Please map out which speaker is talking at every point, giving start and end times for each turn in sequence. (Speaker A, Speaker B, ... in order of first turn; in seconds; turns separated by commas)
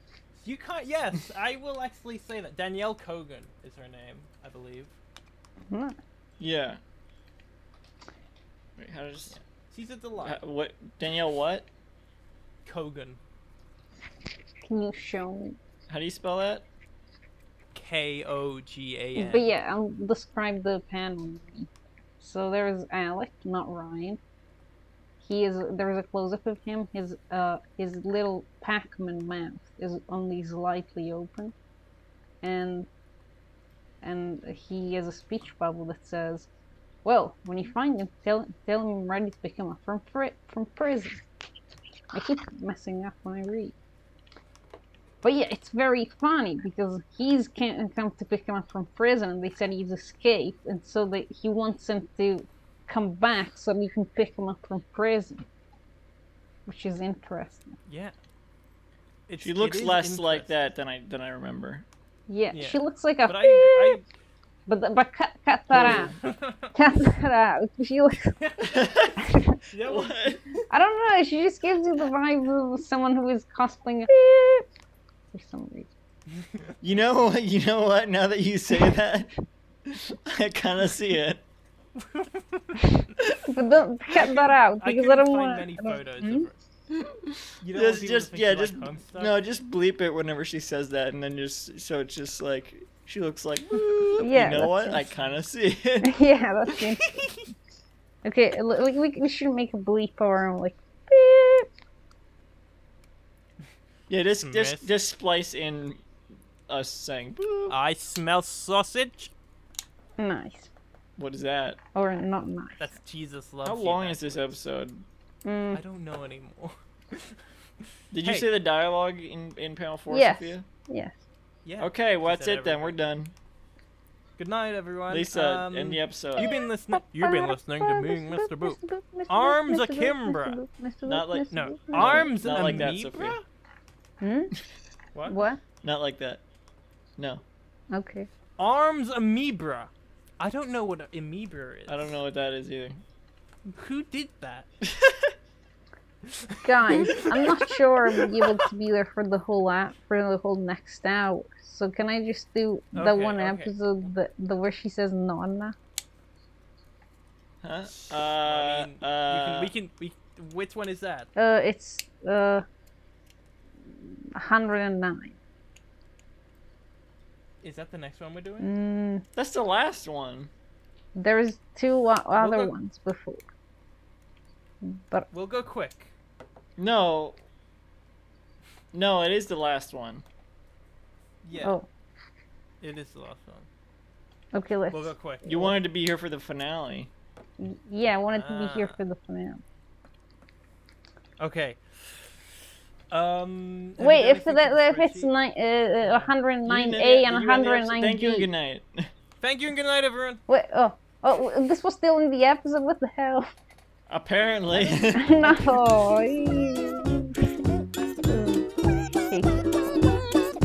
Speaker A: 0.4-4.9, Speaker B: 5.7-6.0, Speaker C: 6.4-6.8, Speaker C: 8.8-9.4, Speaker A: 9.3-10.4, Speaker C: 10.2-11.7, Speaker A: 12.7-13.2, Speaker B: 14.7-15.6, Speaker C: 15.9-16.6, Speaker A: 17.7-19.5, Speaker B: 19.2-21.7, Speaker B: 22.2-24.2, Speaker B: 25.2-31.5, Speaker B: 32.4-32.9, Speaker B: 34.0-36.5, Speaker B: 37.0-41.2, Speaker B: 42.1-43.7, Speaker B: 45.2-55.5, Speaker B: 56.7-57.8, Speaker A: 57.9-58.1, Speaker A: 59.3-60.5, Speaker C: 59.4-61.9, Speaker B: 62.3-64.0, Speaker A: 62.5-64.1, Speaker B: 64.7-66.2, Speaker C: 65.7-66.2, Speaker A: 66.2-66.7, Speaker B: 66.7-68.4, Speaker A: 68.4-70.2, Speaker C: 68.6-69.2, Speaker B: 69.2-69.6, Speaker C: 69.8-70.5, Speaker B: 70.7-74.7, Speaker B: 75.3-75.9, Speaker C: 76.8-79.3, Speaker C: 79.9-81.4, Speaker A: 82.0-82.8, Speaker B: 83.4-86.5, Speaker A: 84.1-86.6, Speaker C: 86.9-96.2, Speaker A: 87.6-89.3, Speaker B: 94.2-95.1, Speaker B: 96.0-97.1, Speaker B: 98.2-101.7, Speaker C: 104.1-106.0, Speaker A: 104.4-104.9, Speaker C: 106.7-107.7, Speaker A: 107.7-109.3, Speaker B: 110.2-110.7, Speaker C: 111.2-111.8, Speaker B: 112.0-112.9, Speaker A: 112.8-114.6, Speaker C: 113.6-115.0, Speaker B: 115.5-115.8, Speaker A: 115.8-117.4, Speaker C: 118.1-120.7, Speaker A: 118.2-118.5, Speaker B: 120.1-121.2, Speaker A: 121.7-123.0, Speaker C: 121.8-123.3, Speaker A: 124.4-130.6, Speaker C: 125.1-126.5, Speaker B: 126.4-132.3, Speaker C: 131.1-133.4, Speaker A: 131.5-133.4, Speaker B: 134.2-134.5, Speaker A: 135.2-135.4, Speaker B: 135.3-135.6, Speaker C: 135.8-136.4, Speaker B: 137.9-138.3, Speaker A: 138.6-142.1, Speaker C: 141.9-143.0, Speaker A: 143.8-144.7, Speaker C: 144.8-145.3, Speaker A: 146.3-148.6, Speaker B: 146.6-155.8, Speaker A: 152.9-153.7, Speaker C: 157.6-159.7, Speaker A: 157.9-161.3, Speaker B: 161.4-162.7, Speaker B: 164.3-165.4, Speaker A: 167.6-168.7, Speaker B: 168.6-169.2, Speaker C: 169.4-170.5, Speaker B: 171.2-173.4, Speaker A: 172.4-172.7, Speaker B: 174.8-175.3, Speaker A: 175.3-176.1, Speaker C: 176.8-177.4, Speaker C: 178.9-180.2, Speaker A: 181.4-181.8, Speaker B: 181.6-181.9, Speaker A: 182.8-183.7, Speaker B: 184.5-185.7, Speaker A: 184.9-185.7, Speaker C: 185.4-187.1, Speaker B: 187.6-189.6, Speaker A: 188.3-189.0, Speaker A: 191.4-192.4, Speaker A: 193.1-195.3, Speaker B: 194.0-198.5, Speaker A: 196.0-196.3, Speaker C: 196.7-199.1, Speaker A: 199.4-200.4, Speaker B: 200.5-203.5, Speaker C: 204.1-205.4, Speaker A: 204.7-205.7, Speaker B: 205.1-207.4, Speaker B: 208.1-210.2